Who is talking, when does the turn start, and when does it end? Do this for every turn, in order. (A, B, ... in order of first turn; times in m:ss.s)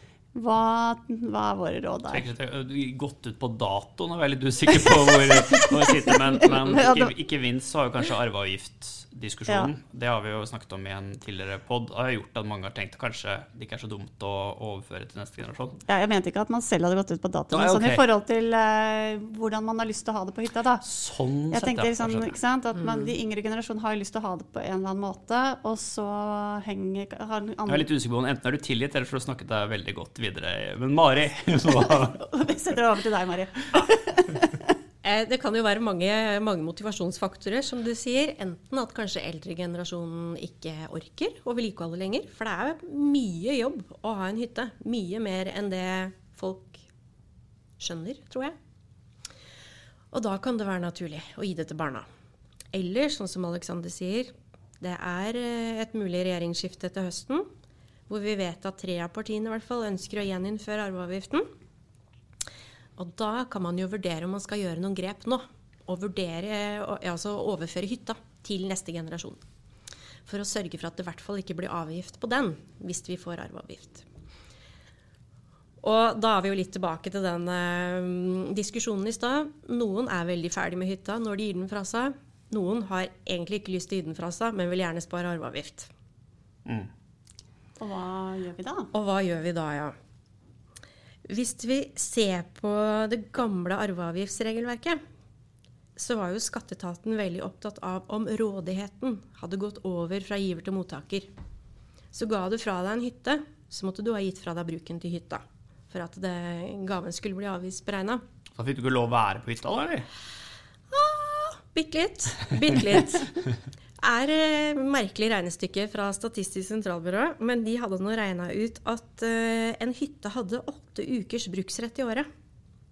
0:00.3-0:02.2 A
0:02.1-0:15.8 B
0:05.3-0:07.1 A
0:15.9-0:20.8 A
0:17.5-0:18.0 B
0:20.8-0:22.3 B
0:21.5-0:27.9 A
0:27.7-0:32.2 B
0:31.9-0:34.7 A
0:35.0-0:46.8 C
0:47.8-0:48.6 C
0:50.1-0:52.0 C
0:52.7-0:57.5 C
0:58.1-1:01.5 C
1:03.0-1:09.4 C
1:10.2-1:14.0 C
1:15.8-1:25.9 C
1:27.8-1:28.9 A
1:28.9-1:29.9 C
1:31.2-1:35.0 C
1:36.0-1:41.3 C
1:42.1-1:48.2 C
1:48.5-1:50.1 B
1:50.9-1:53.3 C
1:54.0-2:02.3 C